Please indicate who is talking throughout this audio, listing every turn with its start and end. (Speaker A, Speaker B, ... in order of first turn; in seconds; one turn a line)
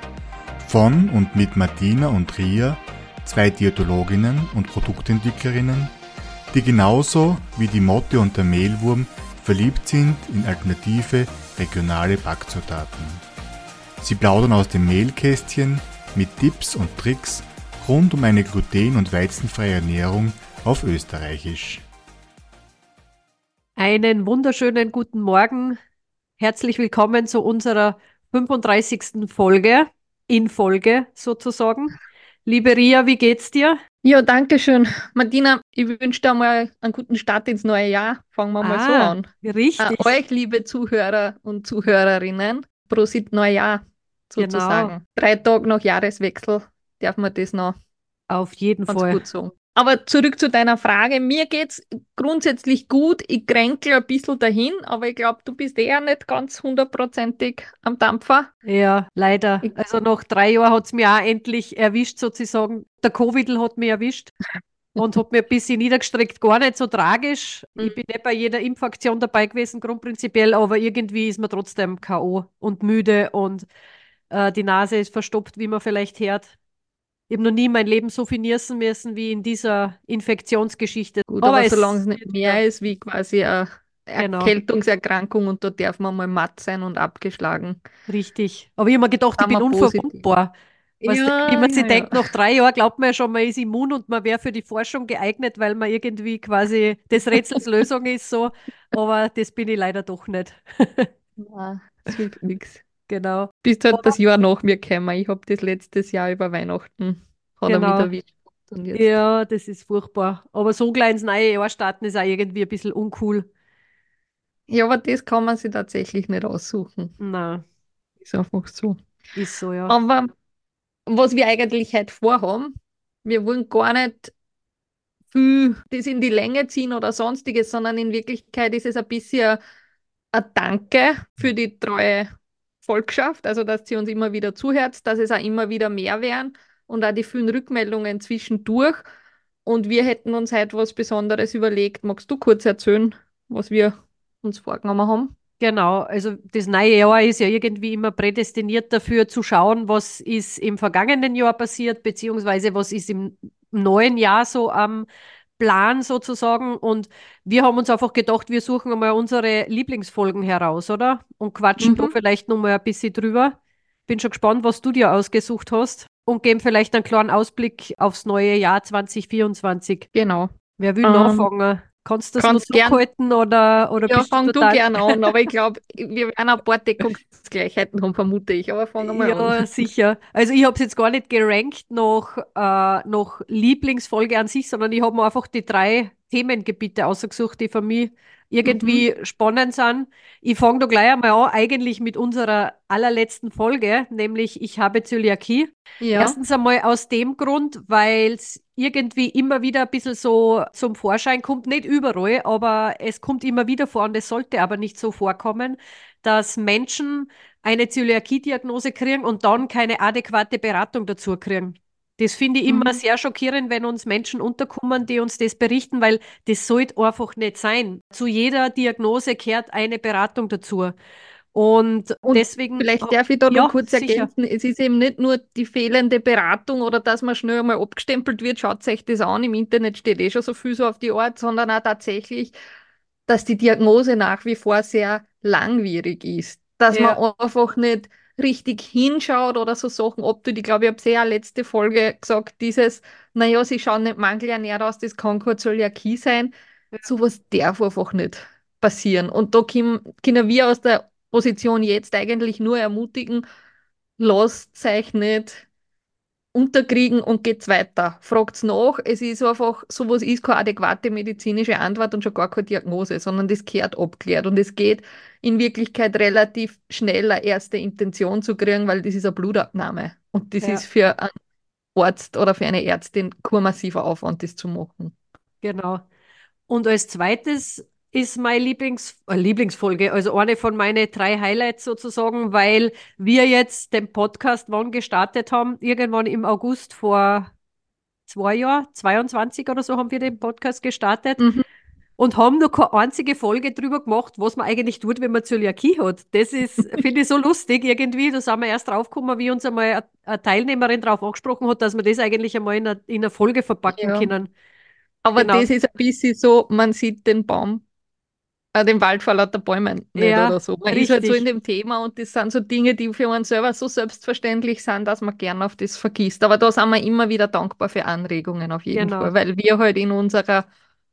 Speaker A: 0.6-5.9
Speaker A: 6.5-13.2
Speaker A: 14.0-21.8
Speaker B: 23.8-25.8
Speaker B: 26.4-33.8
Speaker C: 34.0-39.2
Speaker B: 38.6-40.2
Speaker C: 39.8-47.8
Speaker B: 44.4-44.9
Speaker B: 48.3-49.2
Speaker C: 48.9-58.5
Speaker B: 58.6-64.3
Speaker B: 65.0-73.7
Speaker B: 74.3-76.5
Speaker B: 77.3-82.6
Speaker C: 81.3-87.8
Speaker B: 84.2-84.5
Speaker B: 88.1-101.1
Speaker C: 89.4-90.2
Speaker C: 91.0-92.3
Speaker C: 101.4-102.8
Speaker B: 103.1-104.2
Speaker C: 103.6-109.2
Speaker B: 107.7-108.1
Speaker B: 108.9-113.5
Speaker C: 114.7-117.1
Speaker B: 117.2-117.6
Speaker C: 118.2-119.0
Speaker B: 119.3-120.0
Speaker C: 119.9-120.3
Speaker C: 121.1-122.7
Speaker C: 123.2-124.3
Speaker C: 125.3-129.6
Speaker C: 130.3-132.3
Speaker C: 132.8-139.0
Speaker C: 139.7-145.3
Speaker B: 145.6-163.6
Speaker C: 161.8-162.2
Speaker B: 164.1-170.1
Speaker C: 170.1-170.5
Speaker B: 170.8-175.4
Speaker C: 171.0-171.5
Speaker C: 172.4-173.0
Speaker C: 174.1-179.7
Speaker B: 179.0-221.0
Speaker C: 188.7-189.1
Speaker C: 196.0-196.4
Speaker C: 212.7-213.0
Speaker B: 221.5-224.3
Speaker C: 222.2-232.6
Speaker C: 233.3-246.5
Speaker B: 236.9-237.2
Speaker C: 247.1-253.4
Speaker C: 254.2-255.7
Speaker C: 256.5-271.3
Speaker C: 271.9-275.1
Speaker B: 275.6-276.0
Speaker B: 276.7-287.5
Speaker B: 288.3-291.5
Speaker C: 291.4-291.6
Speaker B: 292.2-304.5
Speaker C: 303.9-304.3
Speaker C: 305.2-307.8
Speaker B: 305.4-305.7
Speaker C: 308.7-320.7
Speaker B: 310.2-311.4
Speaker B: 318.9-319.3